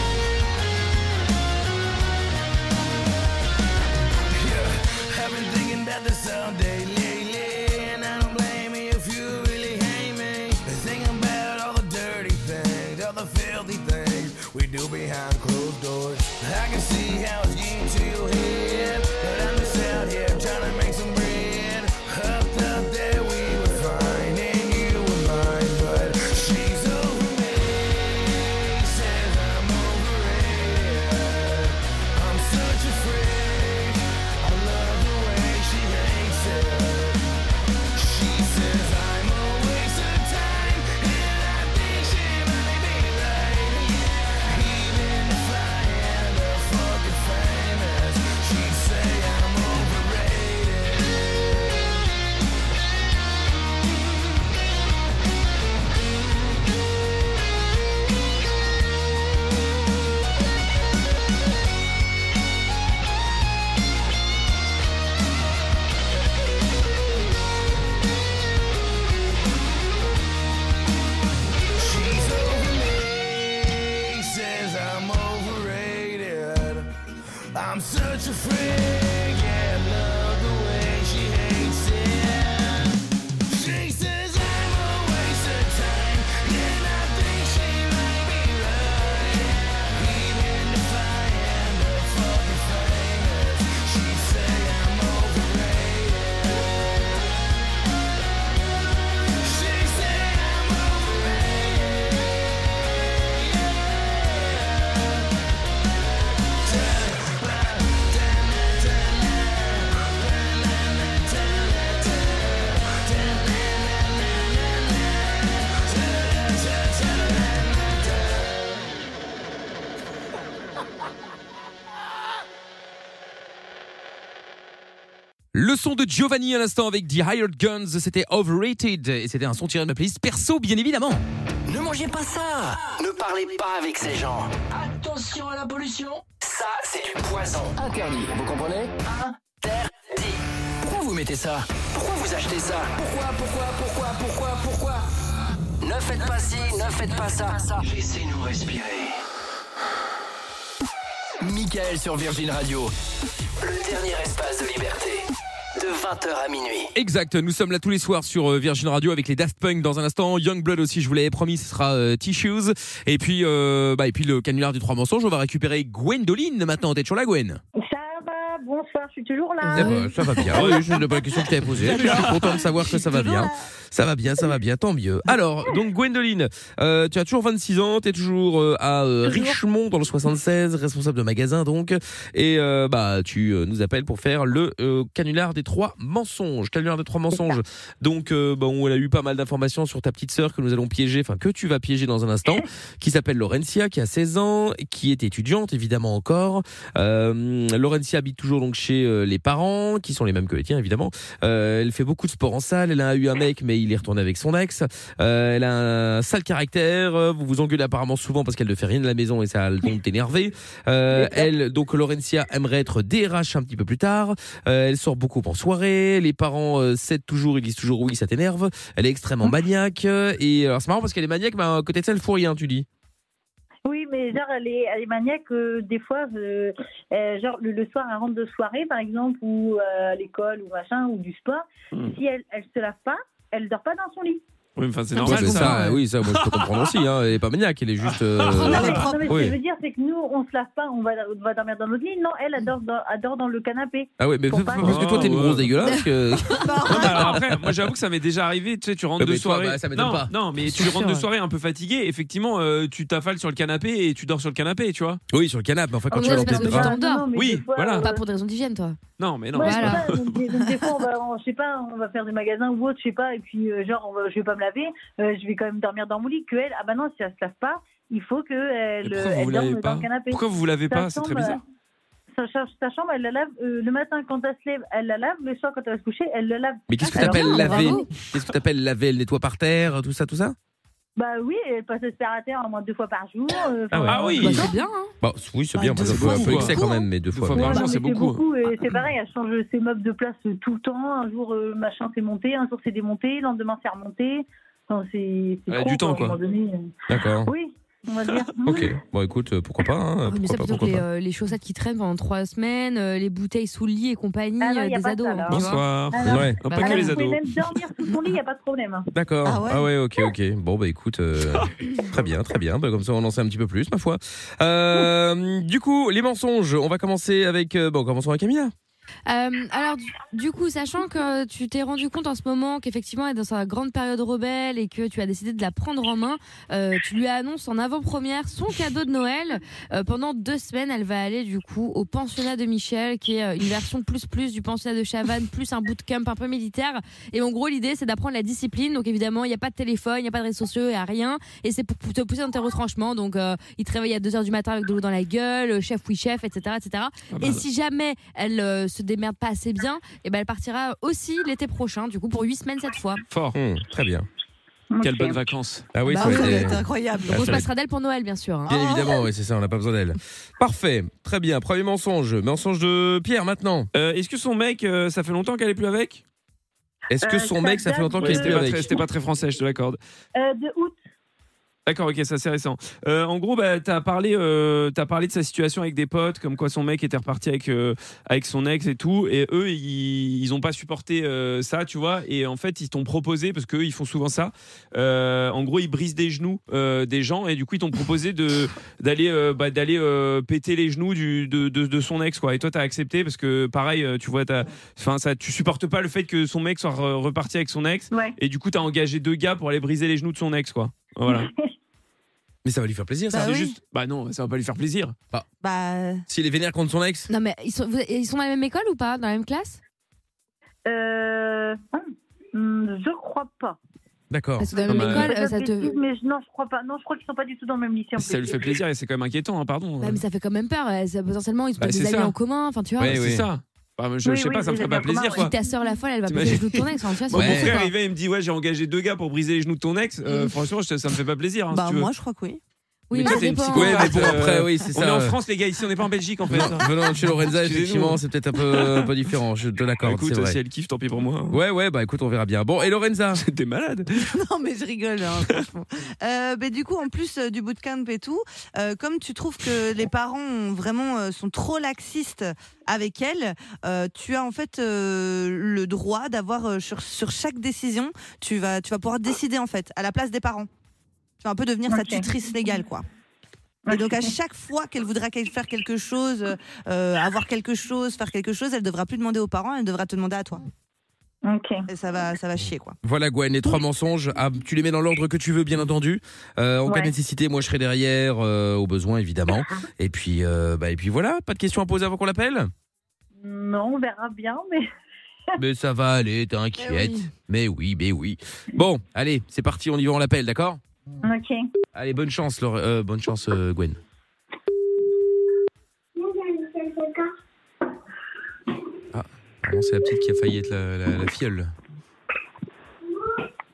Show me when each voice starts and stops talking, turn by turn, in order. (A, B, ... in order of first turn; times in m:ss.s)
0:04.3-0:37.2 A
0:37.9-0:52.0 A
1:11.7-1:16.9 A
1:17.5-1:36.7 A
1:39.4-1:45.3 A
1:46.5-1:58.8 A
2:05.5-2:11.2 B
2:11.7-2:25.1 C
2:25.8-2:29.2 C
2:31.4-2:32.9 C
2:33.6-2:36.9 C
2:36.9-2:47.6 B
2:47.8-2:50.0 D
2:49.6-2:50.7 E
2:49.7-3:42.9 B
2:50.5-2:50.8 F
2:51.8-2:53.6 G
2:51.8-2:52.5 F
3:43.8-3:54.4 D
3:54.8-3:56.9 F
3:55.2-3:56.0 E
3:55.2-3:59.6 B
3:58.0-3:59.0 F
3:58.7-3:59.4 G
3:58.7-4:05.4 D
4:04.2-4:07.7 B
4:04.8-4:05.7 F
4:06.5-4:07.4 G
4:06.9-4:15.2 F
4:09.2-4:10.3 B
4:10.6-4:11.2 E
4:15.3-4:16.9 B
4:16.1-4:17.3 E
4:16.1-4:18.2 D
4:17.3-4:18.0 F
4:18.0-4:19.0 E
4:19.2-4:20.3 F
4:19.5-4:20.2 E
4:19.5-4:31.6 D
4:29.0-4:31.6 F
4:32.3-4:37.9 D
4:36.9-4:40.6 B
4:37.1-4:38.1 E
4:37.1-4:38.0 G
4:41.2-4:44.7 D
4:43.9-4:44.6 B
4:44.1-4:44.7 F
4:44.3-4:45.1 E
4:45.2-4:47.8 B
4:45.8-4:47.0 G
4:45.9-4:46.7 E
4:46.0-4:46.8 F
4:47.3-4:48.4 F
4:47.6-4:56.9 D
4:55.7-4:56.4 F
4:57.1-4:57.5 B
4:57.4-4:58.9 D
4:58.6-5:01.0 B
5:00.3-5:06.0 E
5:04.6-5:09.1 D
5:05.5-5:07.7 F
5:06.2-5:06.6 B
5:06.6-5:07.2 E
5:09.1-5:18.7 B
5:09.4-5:09.9 G
5:19.3-5:53.2 E
5:47.3-5:47.6 F
5:53.3-5:53.6 F
5:53.5-5:54.3 B
5:54.9-5:55.4 D
5:55.0-5:56.5 F
5:55.9-5:57.7 B
5:56.0-5:57.6 G
5:56.2-5:56.7 E
5:57.3-5:58.9 E
5:58.7-6:03.9 B
6:03.9-6:06.2 F
6:07.1-6:08.9 B
6:07.2-6:08.7 D
6:08.2-6:10.0 F
6:10.3-6:11.0 D
6:11.9-6:41.5 F
6:38.1-6:38.4 D
6:41.3-6:41.7 D
6:42.6-6:43.6 B
6:43.3-6:43.8 G
6:43.4-6:45.1 F
6:45.6-6:46.2 G
6:46.3-6:47.3 B
6:47.3-6:49.8 E
6:50.9-6:53.8 D
6:54.3-6:54.7 B
6:54.6-6:55.9 E
6:54.8-6:58.7 D
6:54.9-6:55.3 F
6:58.2-7:00.2 F
7:00.0-7:03.2 E
7:01.8-7:02.3 F
7:03.0-7:03.4 B
7:03.0-7:05.5 F
7:04.2-7:05.5 D
7:05.3-7:07.9 E
7:06.3-7:12.1 F
7:07.3-7:07.8 B
7:11.7-7:12.6 G
7:13.1-7:14.4 E
7:13.1-7:19.1 F
7:13.3-7:15.4 B
7:16.5-7:20.6 B
7:20.0-7:21.6 F
7:21.5-7:23.4 B
7:23.4-7:24.3 F
7:24.2-7:40.7 G
7:41.4-7:43.0 G
7:41.9-7:42.3 D
7:43.9-7:44.3 D
7:43.9-7:50.6 G
7:51.4-7:51.8 D
7:51.9-7:53.0 G
7:53.0-8:02.7 B
8:03.4-8:04.8 D
8:05.6-8:10.8 B
8:06.8-8:07.1 G
8:06.9-8:07.2 E
8:11.2-8:11.6 D
8:11.9-8:14.0 B
8:19.1-8:21.7 B